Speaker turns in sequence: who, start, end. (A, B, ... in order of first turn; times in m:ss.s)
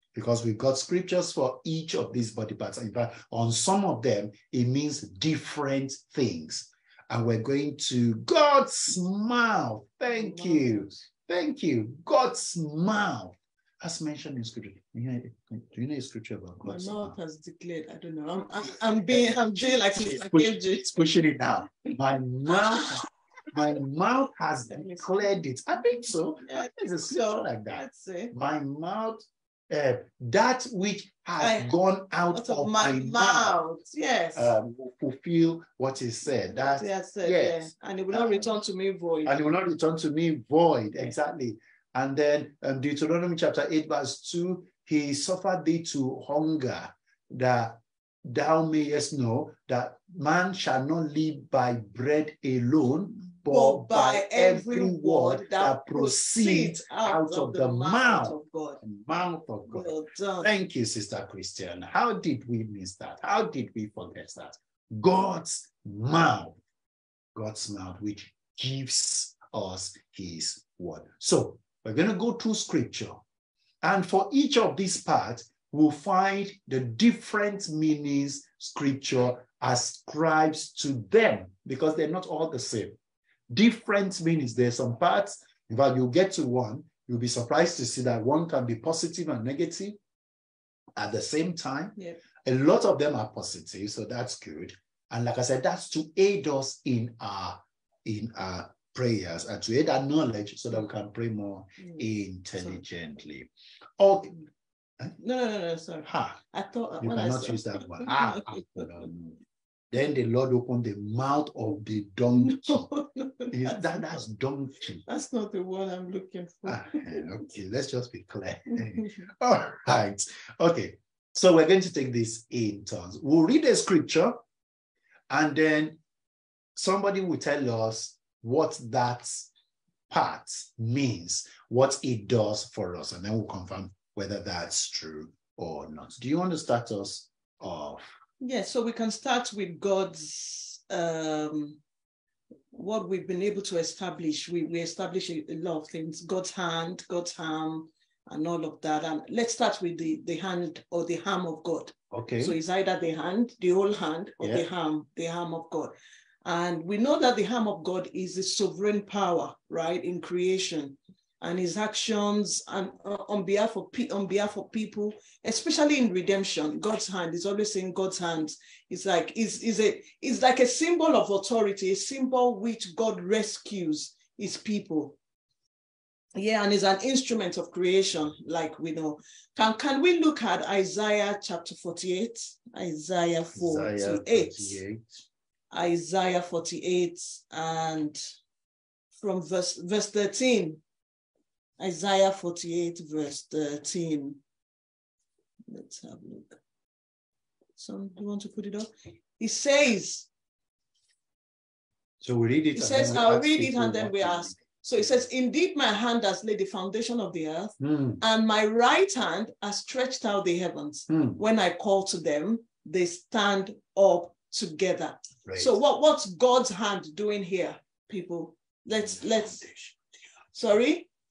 0:00.2-0:17.2 A
0:10.1-0:11.1 B
0:16.6-0:21.1 B
0:19.3-0:33.6 A
0:24.7-0:25.1 B
0:26.5-0:28.3 B
0:31.4-0:31.7 B
0:32.3-0:34.5 B
0:34.4-0:38.4 A
0:36.7-0:39.3 B
0:39.2-0:59.9 A
0:53.5-0:58.8 B
0:59.7-1:00.5 B
1:00.4-1:06.6 A
1:07.4-1:13.2 A
1:13.8-1:23.0 A
1:23.5-1:30.0 A
1:31.0-1:44.4 A
1:41.8-1:42.0 B
1:45.2-1:48.9 B
1:46.0-1:46.4 A
1:47.0-1:49.4 A
1:49.9-1:52.9 A
1:52.4-1:53.8 B
1:53.5-1:55.0 A
1:55.1-1:57.2 B
1:56.7-2:04.4 A
1:58.7-1:59.2 B
2:05.3-2:06.0 A
2:06.8-2:09.5 A
2:10.1-2:18.1 A
2:18.4-2:21.8 B
2:22.7-2:35.9 B
2:32.1-2:32.6 A
2:34.4-2:34.7 A
2:36.4-2:55.2 B
2:56.4-3:04.8 B
3:03.6-3:05.0 A
3:05.7-3:08.2 B
3:09.1-3:10.8 B
3:11.8-3:14.4 B
3:15.7-3:16.6 B
3:17.8-3:20.3 B
3:22.2-3:24.6 A
3:22.8-3:39.7 B
3:27.8-3:28.2 A
3:31.1-3:31.4 A
3:35.5-3:35.8 A
3:40.5-3:41.1 B